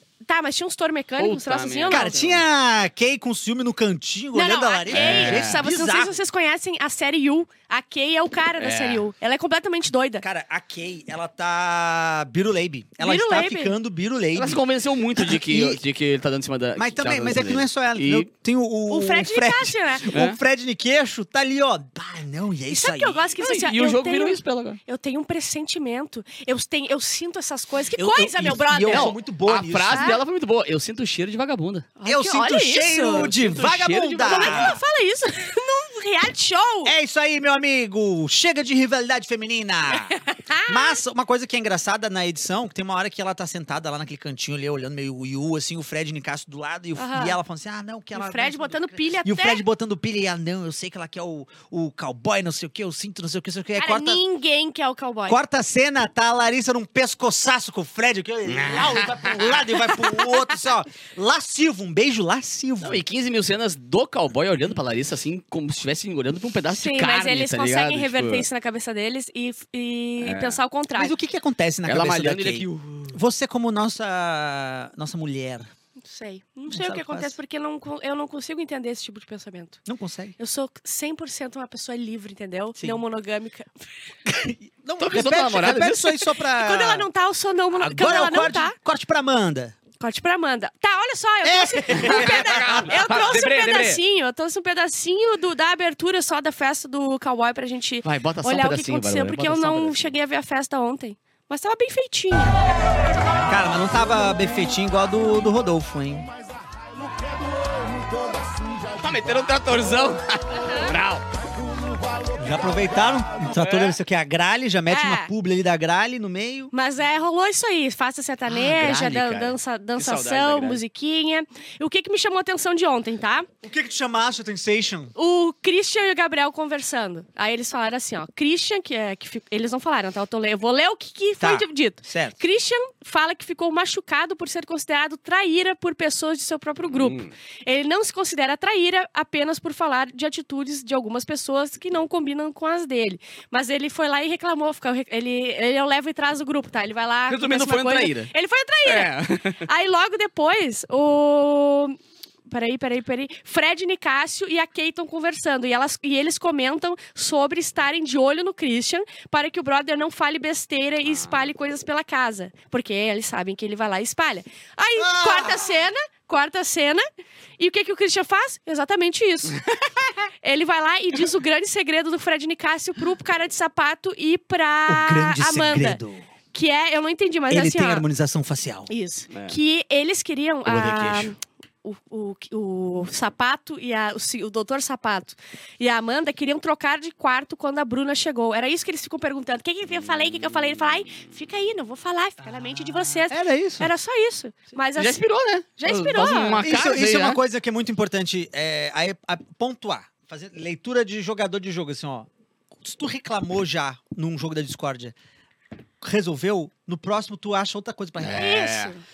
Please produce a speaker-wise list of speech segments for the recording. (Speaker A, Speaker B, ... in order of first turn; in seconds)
Speaker A: 0.2-2.1, 4.3-10.2, 13.0-13.7, 18.9-20.1, 22.7-29.2, 29.9-30.2, 32.0-33.3, 34.2-36.9, 39.9-41.0, 47.0-47.4, 48.1-49.6, 53.8-55.4, 66.7-71.1, 76.0-79.8, 80.4-83.9, 86.6-88.8, 90.0-102.5, 114.9-115.3, 116.7-123.5, 125.1-167.0, 167.6-169.6, 170.4-176.0, 176.5-178.1, 178.9-195.2, 195.8-196.6, 208.3-209.0
Speaker B: 1.2-2.4, 4.9-5.6, 8.6-9.1, 14.3-18.3, 20.1-20.4, 23.4-24.8, 28.9-31.9, 33.1-34.8, 58.5-59.7, 62.8-68.5, 70.2-70.6, 71.8-73.2, 85.0-86.2, 91.9-94.0, 98.0-100.1, 108.9-111.2, 113.5-114.0, 118.5-120.8, 136.9-137.3, 147.3-148.3, 148.8-149.7, 161.1-161.5, 179.3-179.6, 180.7-181.3, 194.9-197.4, 208.2-208.9
Speaker C: 1.9-6.2, 10.2-14.6, 15.2-15.8, 16.8-23.2, 27.9-30.2, 32.0-34.8, 36.8-54.2, 55.3-63.0, 70.9-75.7, 76.7-77.4, 79.8-80.3, 84.2-87.1, 87.8-89.8, 91.4-93.3, 103.5-106.3, 112.4-116.7, 123.6-125.1, 131.4-132.4, 164.9-165.7, 174.9-176.2, 177.5-178.9, 192.6-193.9, 196.6-205.1, 206.0-208.6